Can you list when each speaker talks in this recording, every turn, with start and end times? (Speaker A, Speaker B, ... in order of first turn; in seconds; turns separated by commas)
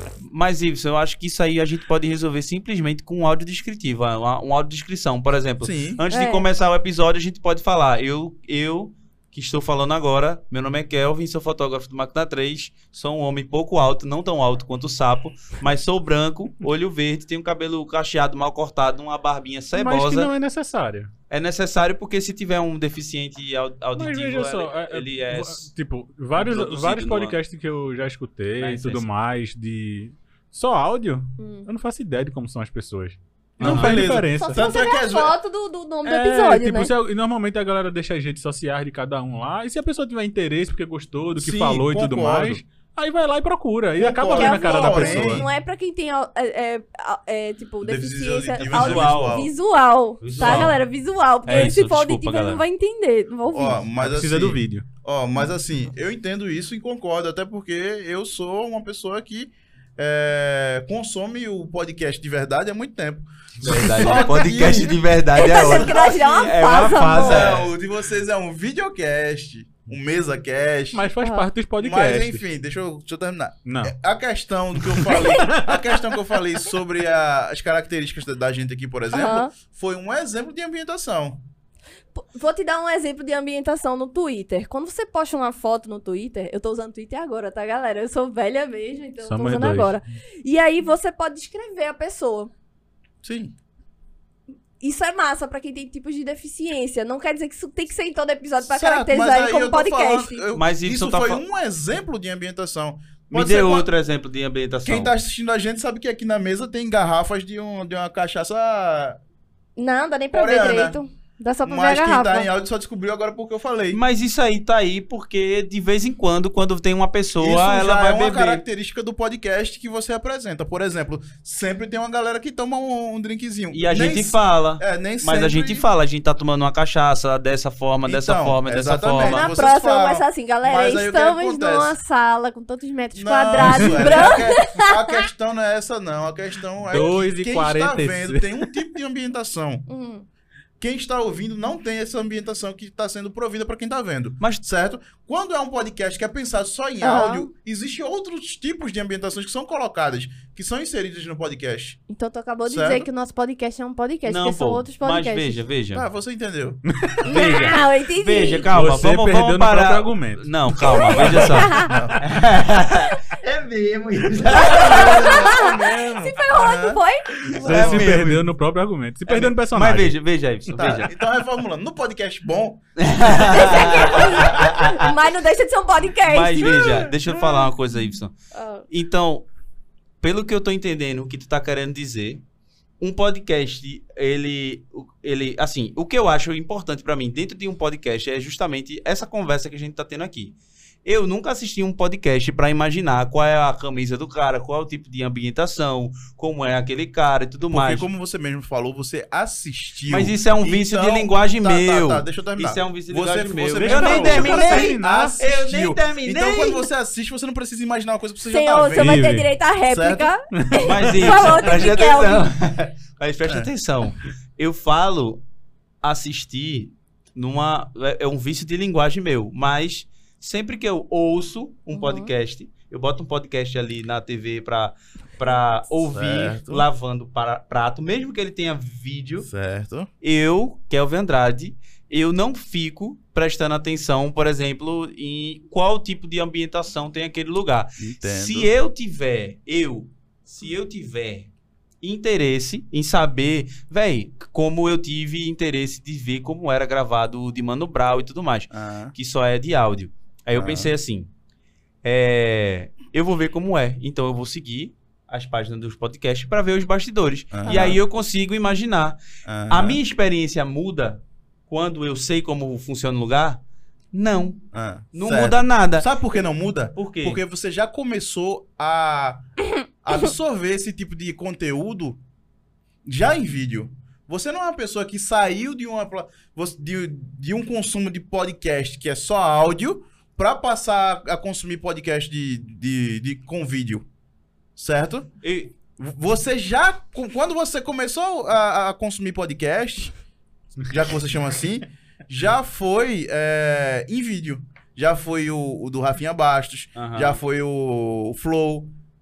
Speaker A: 0.2-20.3, Speaker B: 5.6-6.0, Speaker C: 6.1-6.5, Speaker D: 19.7-21.1, Speaker A: 21.3-25.7, Speaker D: 23.9-34.7, Speaker A: 26.4-27.4, Speaker A: 28.6-29.1, Speaker C: 31.4-31.7, Speaker A: 33.6-34.1, Speaker B: 33.6-35.3, Speaker C: 34.3-36.9, Speaker D: 36.0-45.5, Speaker B: 41.4-42.6, Speaker B: 44.0-45.5, Speaker C: 44.3-53.8, Speaker B: 47.8-49.5, Speaker A: 48.6-49.5, Speaker A: 50.2-50.8, Speaker B: 50.4-50.7, Speaker A: 51.5-52.6, Speaker D: 51.5-51.8, Speaker B: 53.5-66.5, Speaker D: 54.0-54.9, Speaker A: 63.6-67.7, Speaker C: 65.3-67.5, Speaker B: 67.2-71.1, Speaker D: 70.9-72.4, Speaker C: 71.2-71.5, Speaker B: 71.8-81.4, Speaker D: 73.7-73.9, Speaker D: 74.8-75.8, Speaker C: 79.1-79.5, Speaker C: 82.1-92.5, Speaker D: 89.3-90.0, Speaker B: 93.2-93.5, Speaker C: 94.8-100.4, Speaker B: 98.6-103.9, Speaker A: 100.5-101.4, Speaker A: 103.3-105.1, Speaker B: 104.8-109.2, Speaker C: 109.8-112.5, Speaker B: 110.3-111.0, Speaker B: 111.6-114.0, Speaker A: 113.9-118.6, Speaker B: 117.4-125.9, Speaker A: 123.7-129.5, Speaker B: 128.1-131.9, Speaker C: 129.2-135.2, Speaker B: 133.2-139.8, Speaker D: 133.7-134.0, Speaker D: 136.9-138.4, Speaker C: 139.9-140.3, Speaker B: 140.8-152.0, Speaker C: 147.0-147.5, Speaker C: 152.1-155.6, Speaker B: 152.7-153.1, Speaker A: 154.2-156.1, Speaker B: 155.9-156.8, Speaker D: 157.0-157.7, Speaker C: 157.2-158.7, Speaker A: 157.2-165.2, Speaker D: 158.7-161.8, Speaker C: 160.9-161.9, Speaker B: 161.4-162.3, Speaker B: 164.4-165.8, Speaker C: 164.6-167.3, Speaker D: 164.9-166.3, Speaker B: 166.5-168.4, Speaker A: 167.5-168.4, Speaker D: 167.5-170.1, Speaker A: 169.3-171.1, Speaker B: 170.8-174.6, Speaker A: 173.0-175.1, Speaker C: 173.4-177.1, Speaker A: 176.2-178.3, Speaker C: 178.5-178.8, Speaker A: 178.9-179.4, Speaker A: 180.2-182.4, Speaker A: 183.0-190.5, Speaker A: 191.1-198.1, Speaker B: 197.7-210.3, Speaker A: 200.1-206.9, Speaker D: 203.8-205.4, Speaker C: 208.4-212.5, Speaker D: 208.9-209.5, Speaker D: 210.6-211.5, Speaker A: 210.8-215.4, Speaker B: 213.4-213.7, Speaker A: 216.0-229.5, Speaker C: 221.9-222.3, Speaker B: 226.1-226.8, Speaker B: 229.4-230.1, Speaker A: 230.2-241.5, Speaker B: 238.0-238.7, Speaker A: 242.0-251.3, Speaker B: 248.7-249.1, Speaker B: 250.6-250.9, Speaker A: 252.0-259.2, Speaker B: 257.5-258.0, Speaker C: 257.7-258.0, Speaker B: 259.4-260.0, Speaker A: 259.7-263.6, Speaker A: 264.1-264.6, Speaker B: 264.7-269.4, Speaker A: 265.1-266.1, Speaker A: 266.9-267.4, Speaker B: 270.0-272.2, Speaker B: 273.1-284.1, Speaker B: 284.8-285.3, Speaker A: 285.4-285.7, Speaker B: 285.9-290.1, Speaker B: 290.9-298.9, Speaker A: 296.9-297.4